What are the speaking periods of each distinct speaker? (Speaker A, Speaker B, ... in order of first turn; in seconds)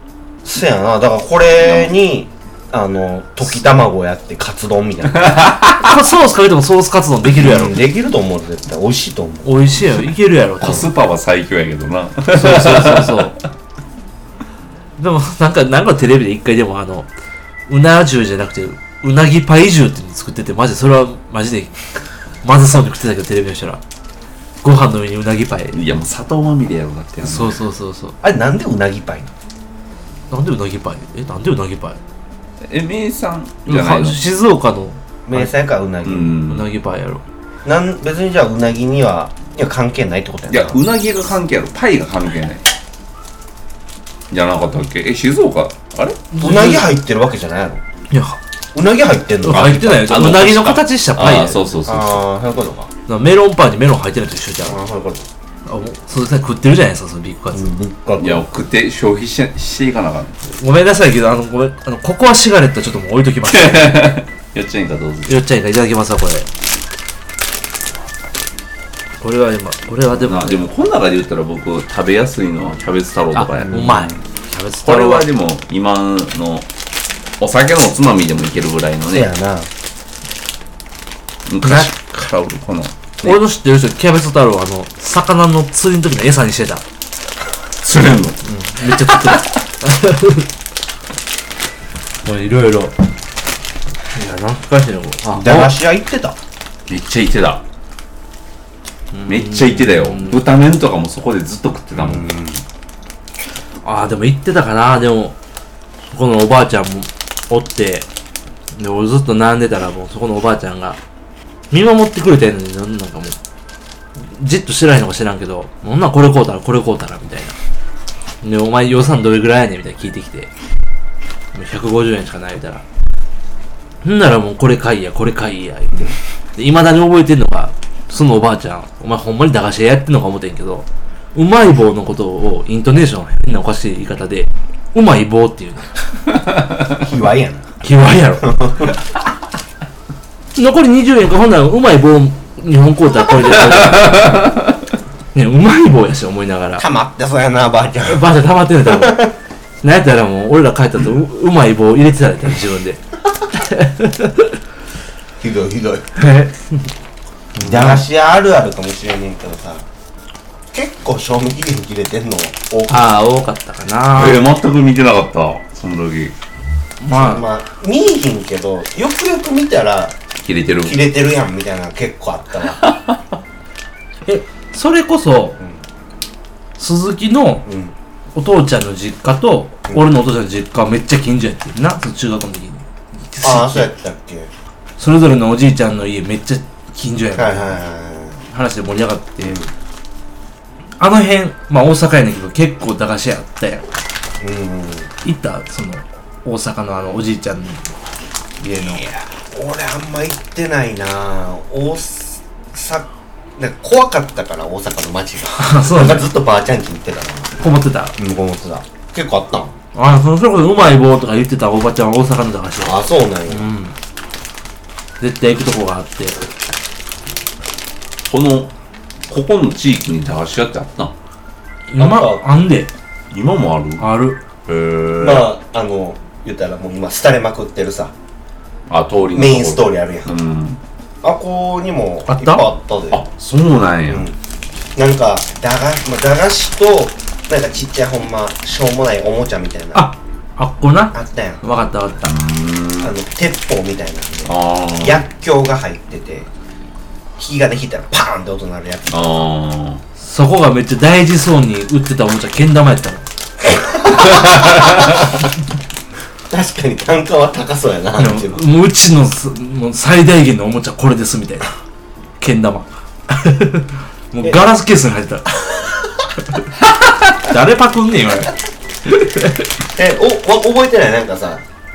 Speaker A: 0.4-5.5, 7.3-9.5, 28.2-29.3, 35.2-36.4, 37.6-40.8, 46.4-47.8, 48.7-50.1, 51.9-52.9, 54.6-55.2, 57.5-58.5, 73.7-74.2, 79.1-79.7, 95.3-96.4, 101.9-102.6, 137.0-137.7, 138.4-138.9, 146.8-149.3, 155.4-156.1, 157.6-159.8, 160.7-163.1, 167.1-170.2, 170.8-172.8, 177.7-177.9, 183.4-184.5, 187.3-188.4, 189.4-189.7, 194.4-195.1, 198.6-207.5, 208.2-209.7, 212.8-213.7, 222.0-222.4, 225.2-228.1, 229.3-230.3, 231.2-233.2, 234.1-234.4, 234.9-240.1, 241.1-241.6, 243.0-246.5, 247.4-249.3, 253.7-255.2, 256.5-258.6, 269.9-271.6
Speaker B: 1.6-1.9, 5.2-5.8, 10.6-13.3, 25.7-27.6, 32.6-34.2, 36.0-36.7, 40.5-42.6, 44.3-46.2, 49.5-52.2, 58.2-60.3, 63.5-65.4, 70.1-74.0, 74.8-76.7, 77.4-79.3, 81.5-83.0, 87.8-89.5, 96.9-97.6, 99.3-102.3, 143.6-144.7, 164.1-166.3, 170.4-171.0, 172.8-173.2, 218.3-218.7, 219.3-221.1, 223.3-224.1, 224.7-225.5, 228.9-230.8, 233.1-234.2, 242.2-243.1, 244.4-245.2, 249.1-250.0, 254.3-254.9
Speaker C: 5.8-7.8, 9.4-10.9, 12.3-13.3, 15.0-17.1, 17.7-21.8, 22.4-23.8, 24.6-25.8, 27.2-28.1, 30.3-32.0, 33.7-35.5, 36.4-37.2, 46.3-46.9, 48.1-48.4, 49.4-51.6, 53.1-54.8, 55.6-57.7, 60.5-64.1, 65.3-66.5, 69.2-70.6, 73.3-75.3, 81.6-81.9, 83.2-86.8, 88.4-90.5, 92.2-92.9, 94.1-95.7, 99.1-100.4, 103.8-105.3, 106.1-108.1, 108.8-111.0, 111.7-113.3, 114.2-117.5, 118.4-120.5, 121.5-122.8, 124.0-135.9, 137.8-138.8, 140.5-144.4, 145.3-146.8, 148.1-149.3, 149.8-153.0, 153.5-154.6, 156.2-156.8, 157.6-158.0, 162.9-164.4, 167.0-167.4, 174.2-175.6, 176.8-177.6, 178.3-183.9, 185.0-187.8, 188.5-189.6, 191.0-193.8, 195.2-197.9, 198.6-199.0, 205.6-206.3, 207.6-208.2, 209.9-213.9, 215.2-216.4, 221.9-222.9, 224.0-224.4, 232.3-232.7, 239.9-242.3, 250.2-253.2, 258.2-261.7, 262.4-265.5, 267.4-268.5, 269.1-269.7